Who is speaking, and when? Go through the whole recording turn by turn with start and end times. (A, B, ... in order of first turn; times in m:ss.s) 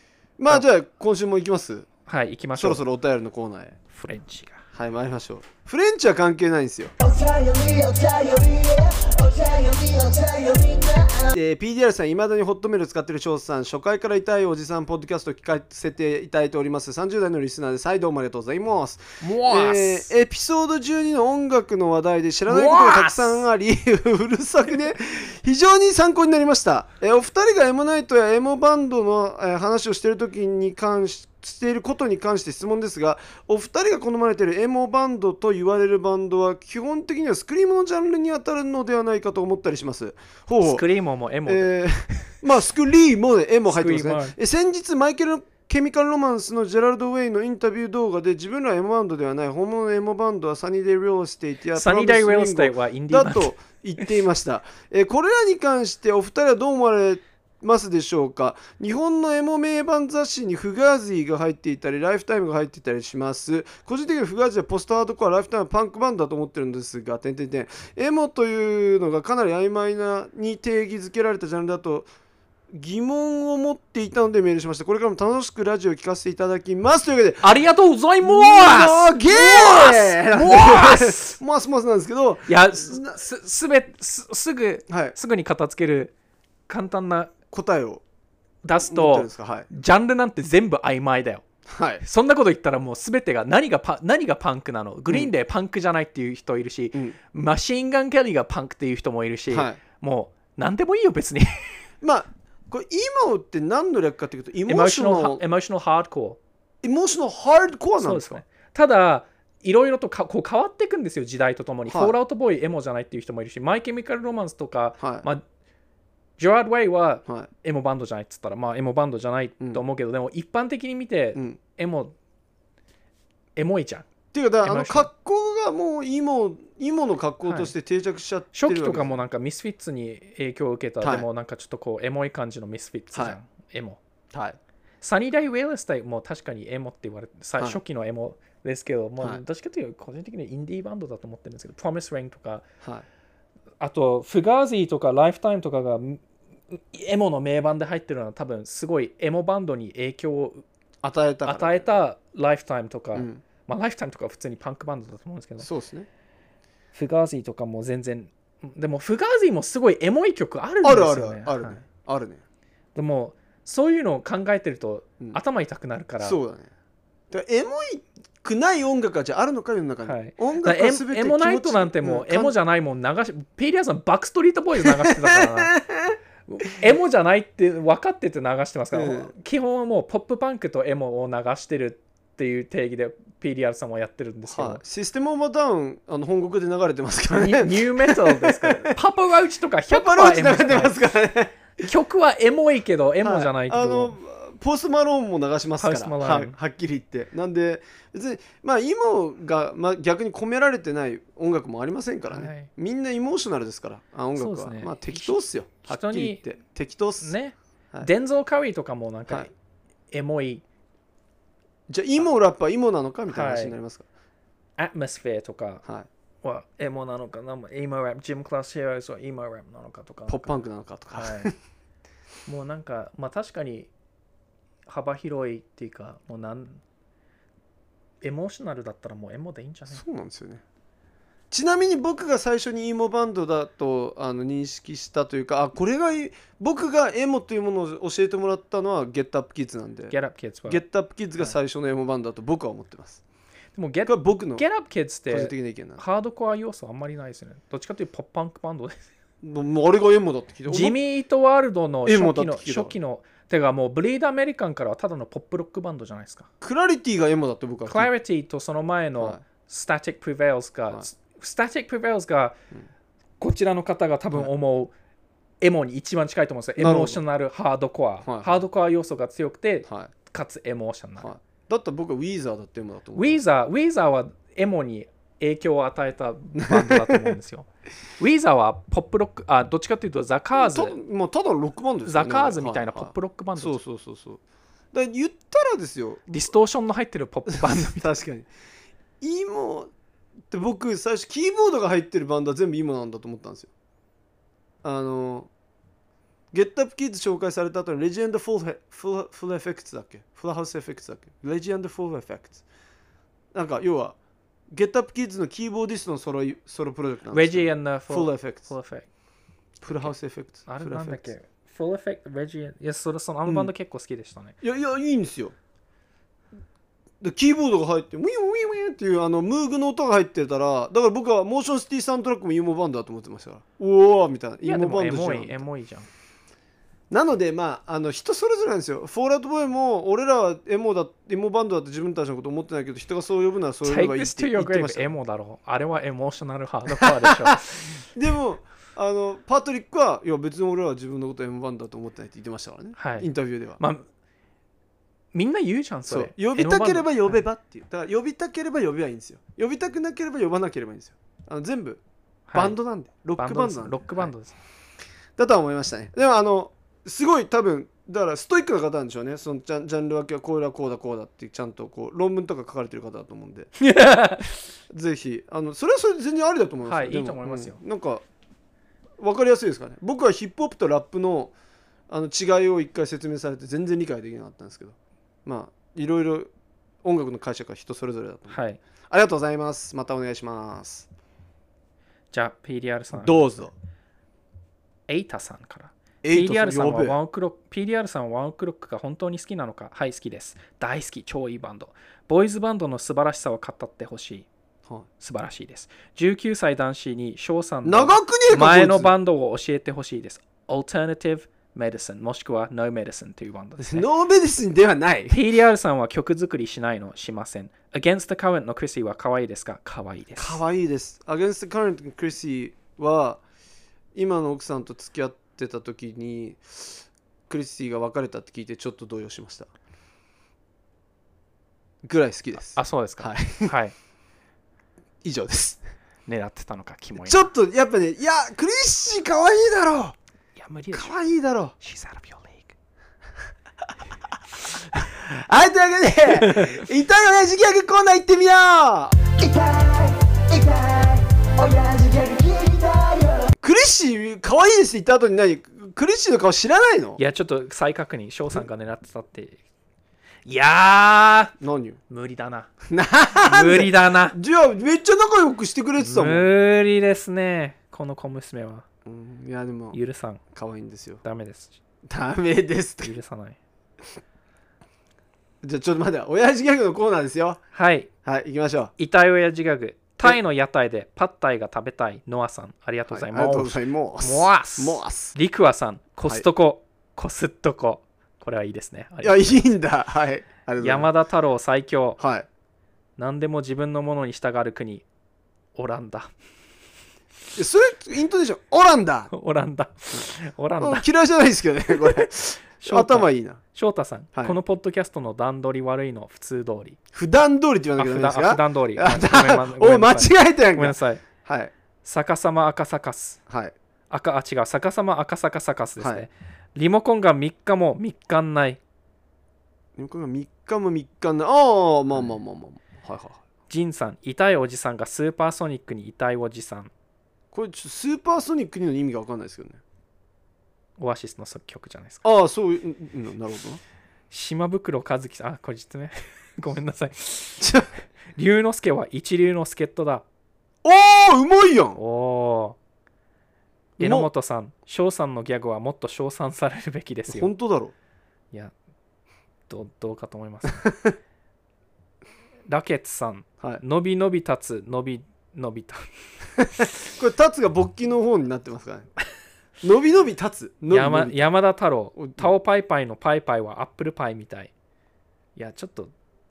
0:00.4-0:01.9 A
0:02.1-0:02.8 B
0:02.6-0:03.8 A
0:03.9-0:04.6 B
0:04.7-0:06.9 A
0:07.0-0:11.4 C
0:11.3-0:40.8 A
0:19.2-0:20.1 B
0:22.5-0:23.4 B
0:40.6-0:42.3 B
0:41.5-1:12.1 A
0:43.7-0:44.4 B
0:51.7-0:54.1 B
1:12.7-1:17.6 A
1:17.4-1:21.4 B
1:18.2-1:23.2 A
1:22.5-1:26.1 B
1:24.9-1:25.2 A
1:26.7-1:27.3 B
1:27.5-1:28.0 A
1:28.6-1:31.4 B
1:28.8-1:29.7 A
1:31.7-1:32.0 A
1:32.0-1:41.9 B
1:39.5-1:39.8 A
1:42.0-1:45.4 A
1:44.7-1:46.4 B
1:46.8-1:48.4 A
1:48.0-1:55.4 B
1:51.9-1:52.2 A
1:55.0-1:55.2 A
1:56.4-2:02.1 B
2:03.6-2:04.1 B
2:04.3-2:09.2 A
2:04.6-2:05.1 B
2:07.4-2:07.7 B
2:08.6-2:14.0 B
2:11.0-2:11.3 A
2:14.3-2:14.6 A
2:15.0-2:22.6 B
2:23.8-2:30.6 B
2:31.0-2:31.9 A
2:31.4-2:35.7 B
2:33.2-2:33.4 A
2:35.6-2:36.1 A
2:36.9-2:41.8 B
2:40.8-2:42.4 A
2:42.9-2:46.4 B
2:46.2-2:46.7 A
2:47.3-2:52.5 A
2:50.0-2:55.8 B
2:54.8-2:56.2 A
2:56.5-3:04.8 B
2:58.9-2:59.3 A
3:04.5-3:09.0 A
3:07.3-3:11.0 B
3:09.9-3:11.6 A
3:11.8-3:14.2 B
3:13.2-3:27.3 A
3:15.8-3:16.6 B
3:22.3-3:22.7 B
3:24.4-3:26.4 B
3:27.2-3:29.5 B
3:30.1-3:30.6 B
3:31.9-3:34.1 A
3:33.3-3:33.8 B
3:34.8-3:35.8 B
3:36.4-3:40.6 B
3:40.3-3:41.5 A
3:41.1-3:41.5 B
3:42.4-3:43.9 B
3:44.9-3:46.8 B
3:48.2-3:50.0 B
3:49.9-3:50.6 A
3:51.5-4:00.1 A
4:00.1-4:00.8 B
4:00.7-4:03.2 A
4:03.7-4:09.0 B
4:04.1-4:04.6 A
4:05.3-4:06.0 A
4:09.4-4:11.0 A
4:10.7-4:16.5 B
4:12.1-4:12.9 A
4:16.6-4:18.1 A
4:17.9-4:22.6 B
4:23.4-4:24.9 B
4:25.6-4:31.3 B
4:26.8-4:27.2 A
4:28.2-4:28.6 A
4:29.9-4:30.1 A
4:31.2-4:33.4 A
4:33.2-4:37.7 B
4:36.6-4:37.3 A
4:38.2-4:41.0 B
4:40.6-4:44.4 A
4:42.0-4:43.8 B
4:44.9-4:46.4 A
4:46.3-4:48.1 B
4:47.5-4:48.5 A
4:49.2-4:49.9 A
4:50.5-4:53.7 A
4:54.8-4:55.5 A
4:56.5-5:02.6 A
5:03.5-5:04.2 A
5:04.7-5:08.7 A
5:07.3-5:09.1 B
5:09.8-5:11.3 A
5:10.7-5:14.6 B
5:14.6-5:15.6 A
5:17.2-5:25.6 A
5:24.6-5:26.1 B
5:27.1-5:35.2 A
5:33.8-5:37.9 B
5:37.0-5:37.6 A
5:38.1-5:43.8 A
5:43.0-5:44.0 B
5:45.3-5:47.4 B
5:46.1-5:52.0 A
5:52.5-5:52.8 B
5:52.5-5:54.3 A
5:53.4-5:54.6 B
5:55.4-6:03.7 A
6:03.8-6:04.6 B
6:04.9-6:08.2 A
6:06.9-6:07.8 B
6:09.2-6:11.5 A
6:12.1-6:16.5 A
6:17.0-6:18.6 A
6:18.5-6:18.8 B
6:19.1-6:21.1 A
6:22.3-6:23.6 B
6:23.1-6:23.7 A
6:25.1-6:34.5 B
6:26.2-6:27.2 A
6:35.2-6:44.1 B
6:37.8-6:39.1 A
6:43.8-6:45.4 A
6:45.3-6:50.6 B
6:50.4-6:53.4 A
6:54.2-6:59.7 A
7:02.0-7:03.7 A
7:02.7-7:03.9 B
7:05.2-7:05.8 A
7:06.3-7:07.5 B
7:07.2-7:10.2 A
7:10.6-7:11.1 B
7:10.9-7:11.7 A
7:11.8-7:12.7 B
7:15.0-7:19.2 A
7:16.5-7:16.8 B
7:19.4-7:23.5 C
7:23.6-7:27.2 A
7:27.2-7:29.6 B
7:30.4-7:31.5 B
7:31.6-7:32.0 A
7:32.1-7:32.7 B
7:32.9-7:36.5 A
7:33.4-7:34.4 B
7:36.0-7:38.8 B
7:39.1-7:40.0 A
7:39.9-7:40.4 B
7:40.5-7:41.2 A
7:41.2-7:41.8 B
7:42.1-7:43.1 A
7:43.0-7:43.6 B
7:45.6-7:47.6 A
7:47.7-7:48.1 B
7:48.2-7:48.9 A
7:49.0-7:59.6 B
7:53.1-7:55.4 A
7:59.2-8:01.1 A
8:00.8-8:02.2 B
8:02.2-8:02.5 A
8:03.2-8:05.0 B
8:05.7-8:06.3 B
8:07.6-8:09.3 A
8:09.3-8:11.1 B
8:10.8-8:13.6 A
8:11.9-8:12.3 B
8:12.8-8:17.0 B
8:17.1-8:21.7 A
8:18.0-8:21.2 B
8:22.0-8:23.4 B
8:23.5-8:23.7 A
8:24.1-8:28.8 B
8:26.0-8:26.3 A
8:30.0-8:33.4 A
8:33.7-8:36.9 B
8:37.5-8:39.8 A
8:41.0-8:42.2 B
8:42.2-8:43.8 A
8:44.3-8:47.7 B
8:47.6-8:47.9 A
8:48.4-8:50.2 B
8:50.8-8:52.0 A
8:52.0-8:52.8 B
8:54.0-8:54.3 A
8:54.0-8:57.5 B
8:57.3-8:57.9 A
8:59.7-9:00.9 B
9:00.8-9:01.2 A
9:02.7-9:06.0 B
9:06.8-9:09.1 A
9:09.8-9:11.4 A
9:10.9-9:14.7 B
9:12.2-9:12.6 A
9:15.6-9:16.1 B